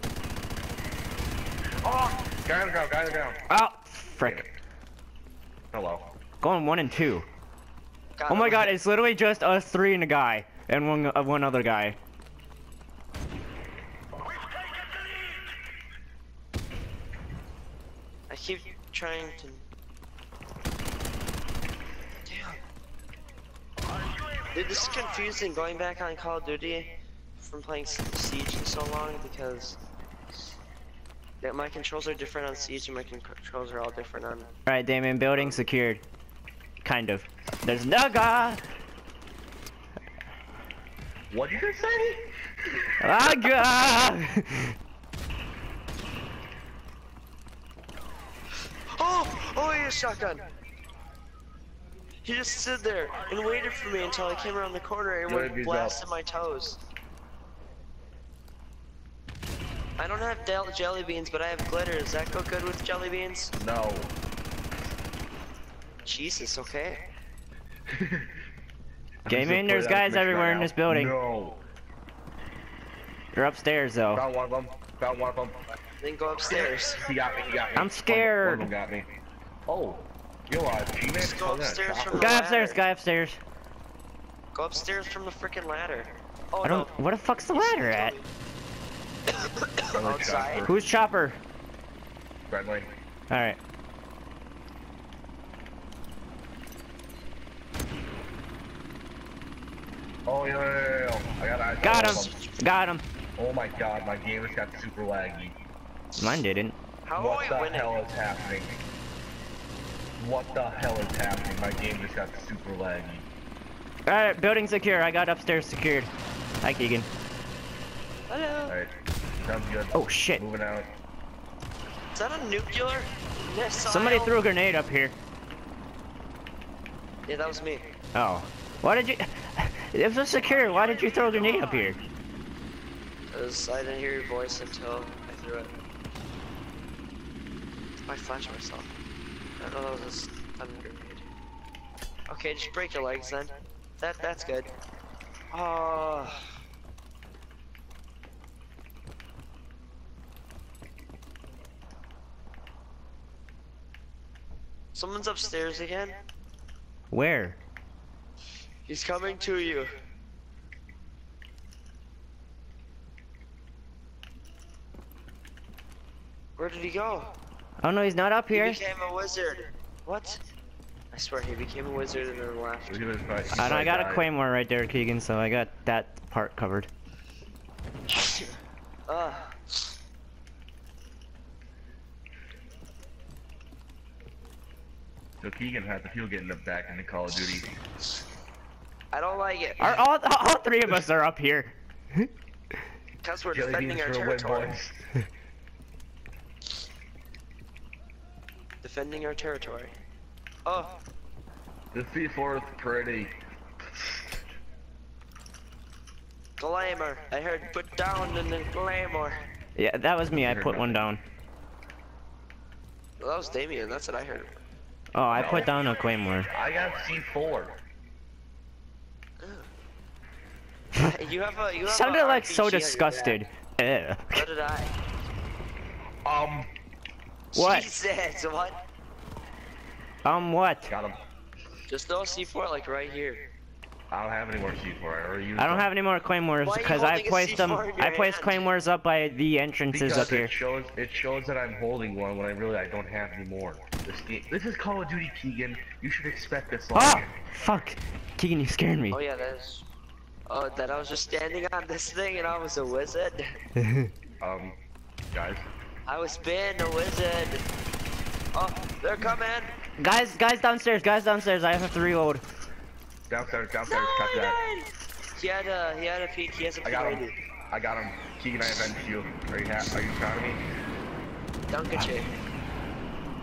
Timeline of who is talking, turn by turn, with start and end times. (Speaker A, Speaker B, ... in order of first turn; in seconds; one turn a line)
Speaker A: 1.8-3.4
Speaker B: 3.5-4.5
Speaker A: 4.2-4.5
Speaker A: 5.7-6.1
Speaker B: 6.4-7.3
Speaker C: 8.2-8.8
Speaker B: 8.3-12.0
Speaker C: 18.3-19.6
Speaker C: 22.2-22.6
Speaker C: 24.5-29.8
Speaker C: 31.4-34.5
Speaker B: 34.7-36.0
Speaker B: 36.8-38.6
Speaker A: 41.3-43.0
Speaker B: 43.0-44.8
Speaker C: 48.9-50.4
Speaker C: 52.2-56.8
Speaker A: 55.3-56.0
Speaker C: 60.0-63.5
Speaker A: 63.6-64.2
Speaker C: 66.0-67.0
Speaker A: 67.9-68.3
Speaker A: 69.2-71.6
Speaker B: 69.3-71.2
Speaker B: 73.3-74.2
Speaker A: 74.1-75.6
Speaker C: 76.0-77.0
Speaker A: 76.5-79.1
Speaker B: 77.8-78.7
Speaker A: 79.7-82.4
Speaker C: 81.2-82.8
Speaker B: 82.1-83.4
Speaker C: 84.5-86.9
Speaker B: 86.6-88.2
Speaker C: 87.5-88.2
Speaker C: 89.3-90.7
Speaker A: 89.9-90.8
Speaker B: 90.6-91.4
Speaker A: 92.5-92.9
Speaker B: 93.3-93.6
Speaker A: 100.3-102.4
Speaker B: 101.8-103.0
Speaker A: 103.4-105.6
Speaker B: 106.2-106.8
Speaker C: 107.0-107.9
Speaker A: 107.2-108.8
Speaker A: 110.2-113.3
Speaker B: 114.1-116.1
Speaker B: 116.6-117.1
Speaker C: 118.3-118.8
Speaker A: 118.7-120.9
Speaker B: 119.9-120.4
Speaker C: 122.1-124.3
Speaker B: 123.9-125.2
Speaker C: 127.3-127.9
Speaker B: 128.1-132.0
Speaker C: 133.3-135.8
Speaker C: 138.1-138.9
Speaker C: 139.6-141.3
Speaker C: 142.3-144.7
Speaker C: 145.5-146.5
Speaker C: 154.9-156.2
Speaker B: 157.1-157.6
Speaker C: 158.9-159.9
Speaker C: 166.6-167.3
Speaker B: 167.8-168.8
Speaker C: 168.5-170.4
Speaker C: 171.1-173.1
Speaker A: 172.9-174.3
Speaker B: 173.6-176.9
Speaker C: 178.1-178.5
Speaker C: 179.1-179.8
Speaker A: 185.4-187.7
Speaker C: 189.1-189.9
Speaker B: 189.8-192.3
Speaker C: 193.2-194.8
Speaker A: 193.5-195.0
Speaker C: 198.8-199.9
Speaker C: 200.7-201.0
Speaker A: 201.9-204.4
Speaker C: 206.6-209.4
Speaker B: 209.8-211.2
Speaker A: 210.3-211.0
Speaker C: 213.2-214.6
Speaker B: 215.1-216.5
Speaker A: 215.3-215.7
Speaker A: 216.5-217.8
Speaker C: 219.4-219.7
Speaker C: 221.0-223.4
Speaker B: 221.9-224.4
Speaker C: 224.3-224.9
Speaker A: 226.2-226.7
Speaker C: 227.5-228.8
Speaker B: 227.6-227.9
Speaker B: 230.2-230.9
Speaker A: 230.9-231.2
Speaker C: 231.9-233.5
Speaker A: 234.1-235.9
Speaker B: 235.6-240.5
Speaker C: 236.6-238.7
Speaker A: 239.9-247.4
Speaker B: 246.9-249.2
Speaker C: 249.1-249.8
Speaker C: 250.5-253.5
Speaker A: 254.4-254.8
Speaker A: 255.3-255.6
Speaker C: 256.1-257.6
Speaker C: 258.5-259.7
Speaker B: 260.0-262.4
Speaker A: 263.3-264.6
Speaker C: 263.9-267.4
Speaker A: 266.8-270.6
Speaker C: 271.7-272.3